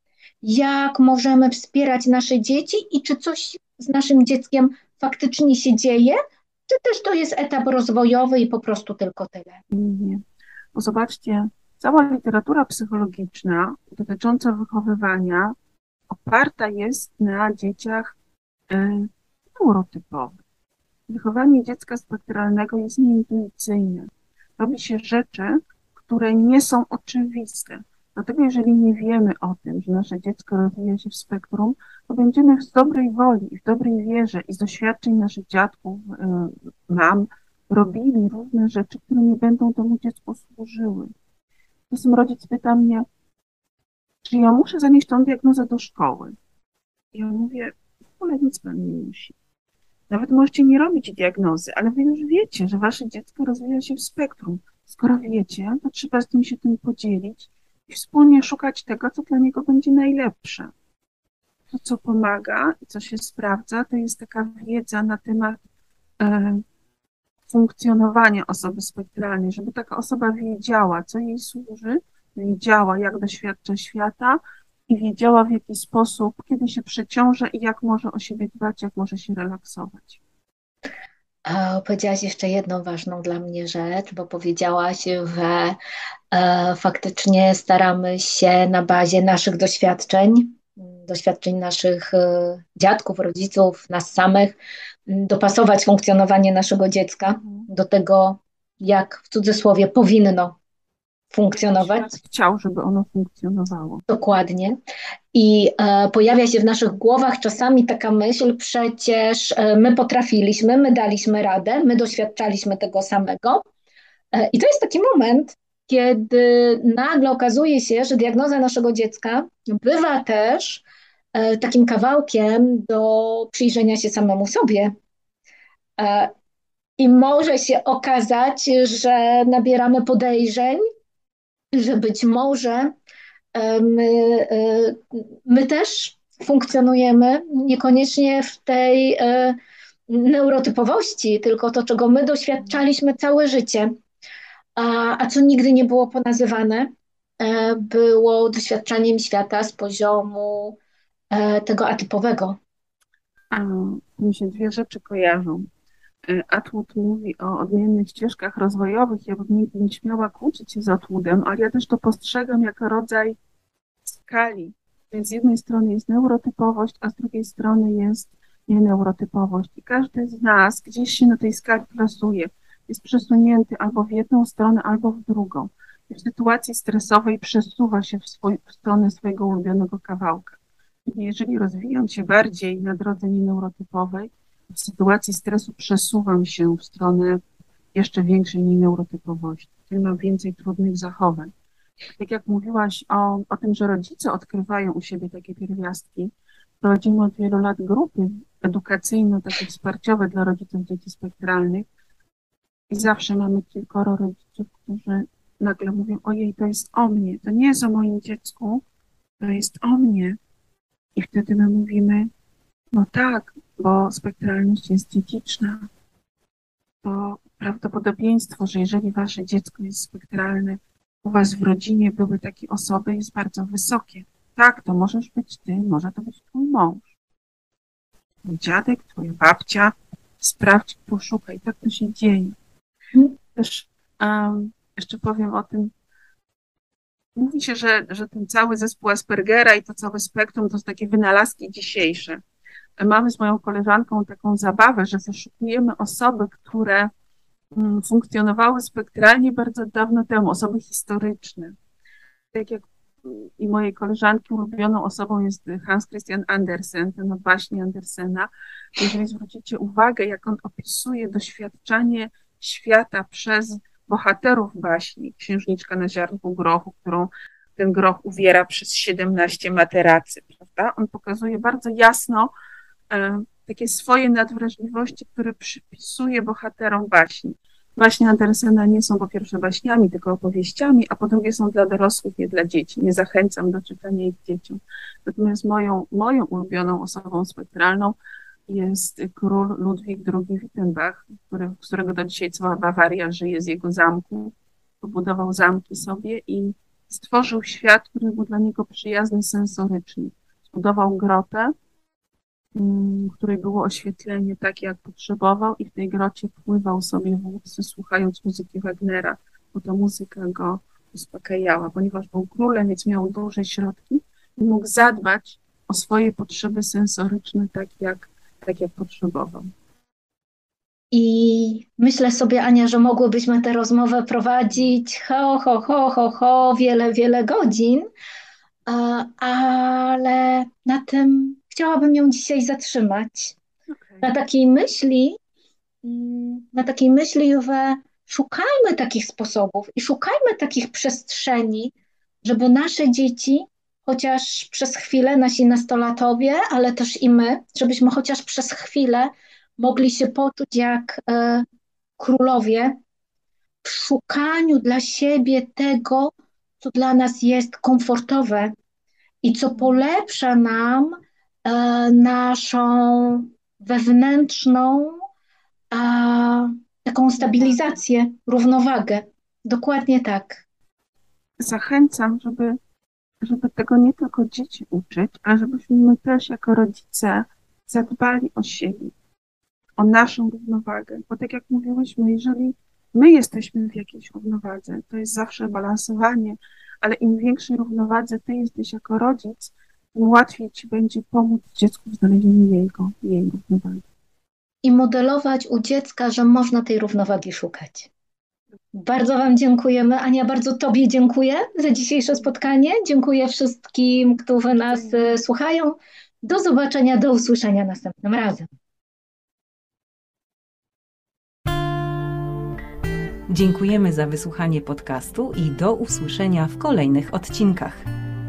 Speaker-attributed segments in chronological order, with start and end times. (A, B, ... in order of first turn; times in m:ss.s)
0:00.4-0:09.6 A
0:09.7-0:10.2 B
0:10.7-0:15.5 B
0:16.1-0:18.2 B
0:18.7-0:20.4 B
0:21.1-0:41.1 B
0:41.9-0:43.0 B
0:44.2-0:46.3 B
0:47.1-0:49.4 B
0:50.1-1:00.7 B
1:01.7-1:05.6 B
1:06.2-1:06.6 B
1:07.5-1:20.2 B
1:21.4-1:25.8 A
1:26.3-1:34.6 A
1:35.1-1:40.6 A
1:37.4-1:37.7 B
1:41.3-1:42.1 A
1:41.5-1:44.0 B
1:44.1-1:44.8 A
1:45.3-1:53.6 A
1:54.3-2:00.8 A
2:01.3-2:04.9 A
2:06.0-2:06.3 A
2:07.0-2:10.8 A
2:11.7-2:12.9 A
2:13.5-2:19.6 A
2:20.1-2:23.9 A
2:24.8-2:30.8 A
2:31.3-2:32.6 A
2:33.5-2:35.6 B
2:36.2-2:43.4 B
2:44.0-3:07.4 B
3:07.9-3:11.5 B
3:12.1-3:21.9 B
3:22.9-3:28.8 B
3:29.4-3:30.4 B
3:31.1-3:32.3 B
3:32.9-3:35.9 B
3:37.0-3:47.1 B
3:48.4-3:52.5 B
3:53.5-3:55.9 B
3:57.4-4:02.4 B
4:03.0-4:07.1 B
4:07.7-4:11.7 B
4:12.5-4:32.5 B
4:33.1-4:48.2 B
4:48.7-5:01.7 B
5:02.7-5:19.7 B
5:21.1-5:28.1 A
5:28.9-5:33.6 A
5:33.9-5:34.3 B
5:34.2-5:35.4 A
5:36.0-5:41.9 A
5:42.4-5:51.6 A
5:52.2-5:53.0 A
5:53.8-5:58.7 A
5:59.4-6:05.2 A
5:59.7-6:00.0 B
6:05.9-6:10.6 A
6:07.4-6:07.8 B
6:11.6-6:12.8 B
6:13.4-6:19.1 B
6:20.0-6:34.0 B
6:34.8-6:38.1 A
6:38.9-6:48.7 A
6:45.0-6:45.3 B
6:53.5-6:58.0 C